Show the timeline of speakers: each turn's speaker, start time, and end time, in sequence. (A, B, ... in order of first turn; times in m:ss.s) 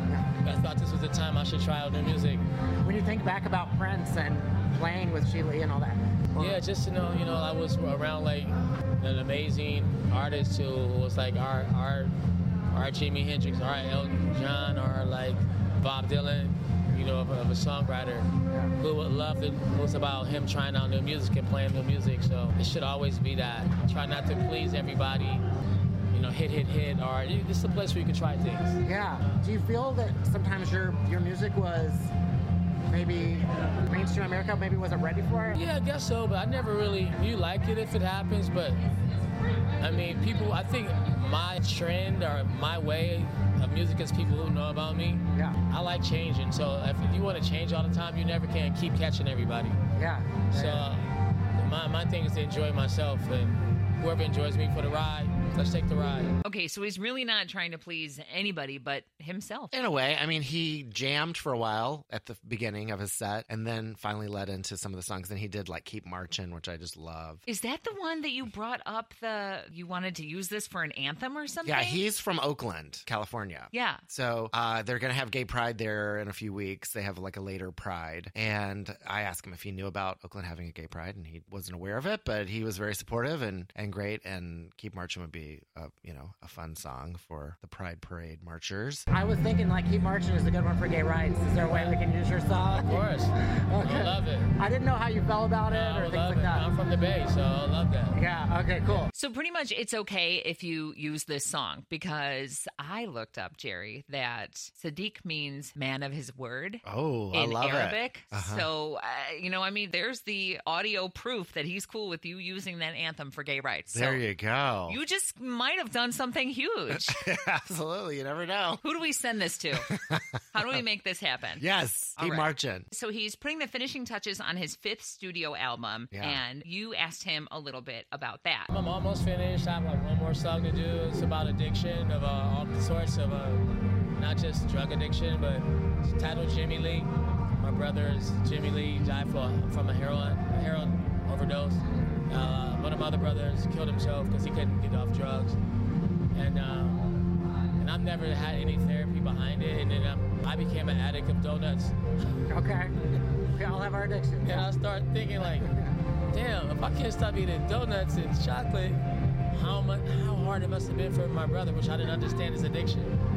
0:00.4-0:02.4 A
0:03.1-0:05.7 B
0:06.4-0:12.1 A
0:12.7-0:25.4 A
0:26.1-0:28.8 A
0:28.9-0:32.1 B
0:32.9-0:35.4 B
0:35.5-0:38.8 A
0:39.8-0:49.8 A
0:50.5-0:56.4 A
0:56.4-0:59.7 C
0:59.7-1:07.4 D
1:07.5-1:12.0 C
1:11.6-1:29.7 D
1:13.7-1:14.0 C
1:29.9-1:31.5 B
1:31.6-1:32.0 A
1:32.1-1:32.9 B
1:32.8-1:34.5 A
1:33.7-1:34.0 B
1:34.8-1:35.8 B
1:35.7-1:38.2 A
1:38.5-1:38.9 B
1:39.1-1:54.2 C
1:46.8-1:48.7 D
1:53.9-1:55.0 D
1:54.9-1:57.2 C
1:56.9-1:58.8 D
1:58.8-2:00.0 C
1:59.8-2:00.8 D
2:00.5-2:01.6 C
2:01.6-2:02.9 D
2:02.2-2:08.7 C
2:06.1-2:06.4 D
2:08.7-2:13.7 A
2:14.2-2:17.1 A
2:17.6-2:25.6 A
2:26.3-2:32.1 A
2:34.4-2:35.7 A
2:36.3-2:43.2 A